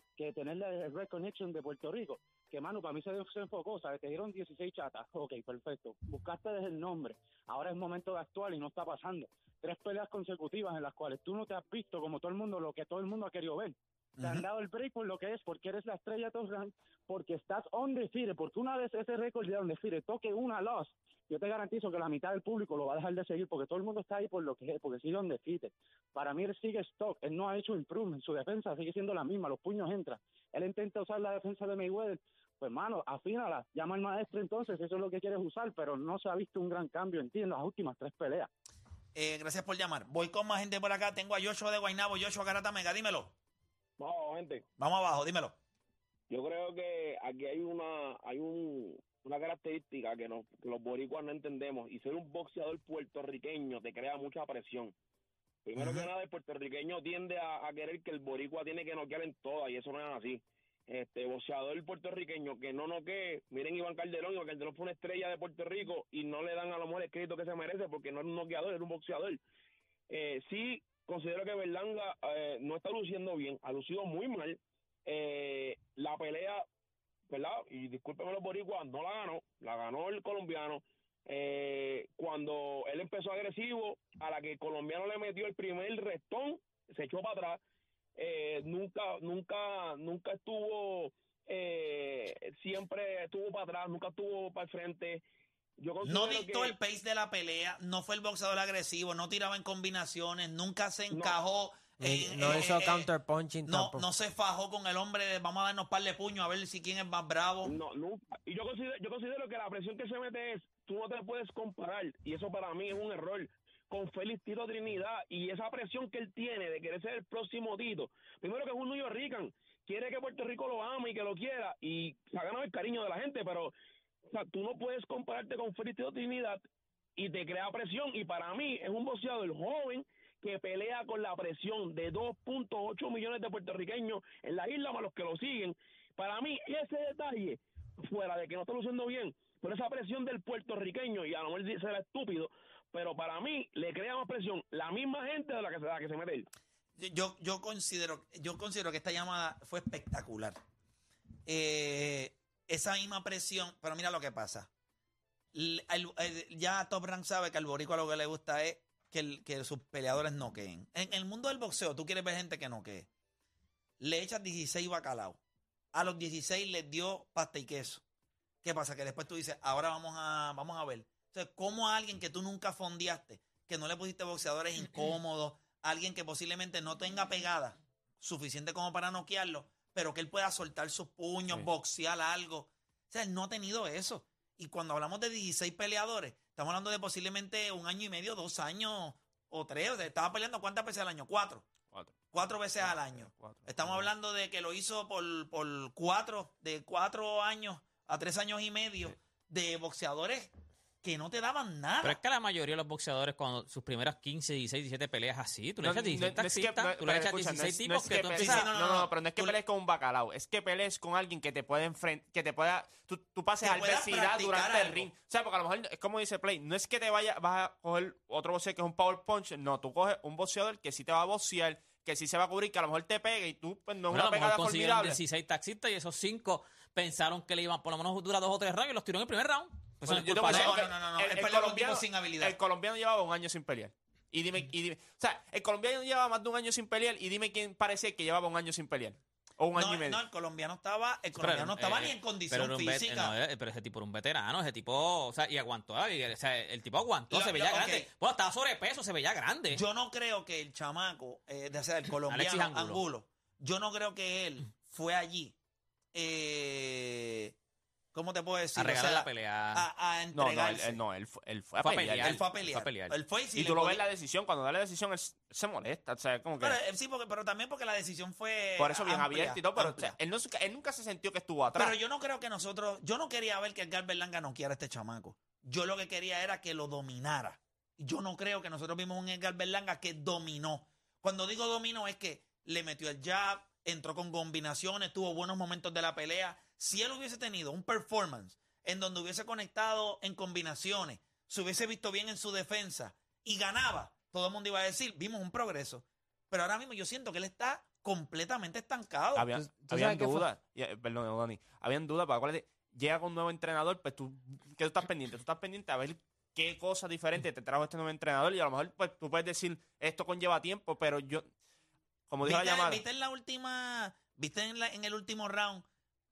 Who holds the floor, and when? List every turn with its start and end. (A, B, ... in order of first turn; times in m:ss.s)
0:00.2-0:38.5 A
0:14.2-0:14.5 B
0:39.2-0:43.3 B
0:44.0-0:44.6 C
0:44.8-0:45.6 B
0:46.3-0:55.0 C
0:55.7-1:09.4 C
1:10.1-1:16.6 C
1:17.3-1:27.6 C
1:28.2-1:35.2 C
1:35.8-1:36.8 C
1:36.0-1:43.1 B
1:41.1-1:41.4 C
1:42.0-1:44.1 D
1:43.7-1:47.7 B
1:47.6-2:03.7 C
2:04.3-2:06.6 C
2:07.2-2:26.5 C
2:27.0-2:30.6 B
2:31.5-2:34.7 B
2:35.5-2:43.1 B
2:44.0-2:45.4 B
2:45.9-2:48.0 B
2:48.6-3:11.7 B
3:11.9-3:12.2 E
3:12.3-3:20.5 B
3:12.8-3:14.0 E
3:21.0-3:22.2 B
3:22.0-3:28.7 F
3:25.8-3:45.2 E
3:28.4-3:29.6 B
3:33.6-3:35.1 B
3:44.1-3:50.8 F
3:50.0-4:00.2 E
3:50.5-3:52.6 B
3:59.8-4:03.3 B
4:01.4-4:09.8 F
4:07.3-4:08.1 B
4:09.7-4:15.6 B
4:12.3-4:13.0 F
4:16.1-4:17.6 B
4:18.1-4:21.0 B
4:18.8-4:19.8 F
4:20.3-4:22.4 E
4:21.8-4:23.2 F
4:22.2-4:24.0 B
4:23.6-4:26.8 E
4:26.6-4:30.2 B
4:28.8-4:32.0 E
4:31.8-4:59.6 B
4:59.4-5:11.5 E
4:59.6-5:00.5 D
5:12.3-5:13.0 E
5:12.4-5:15.8 B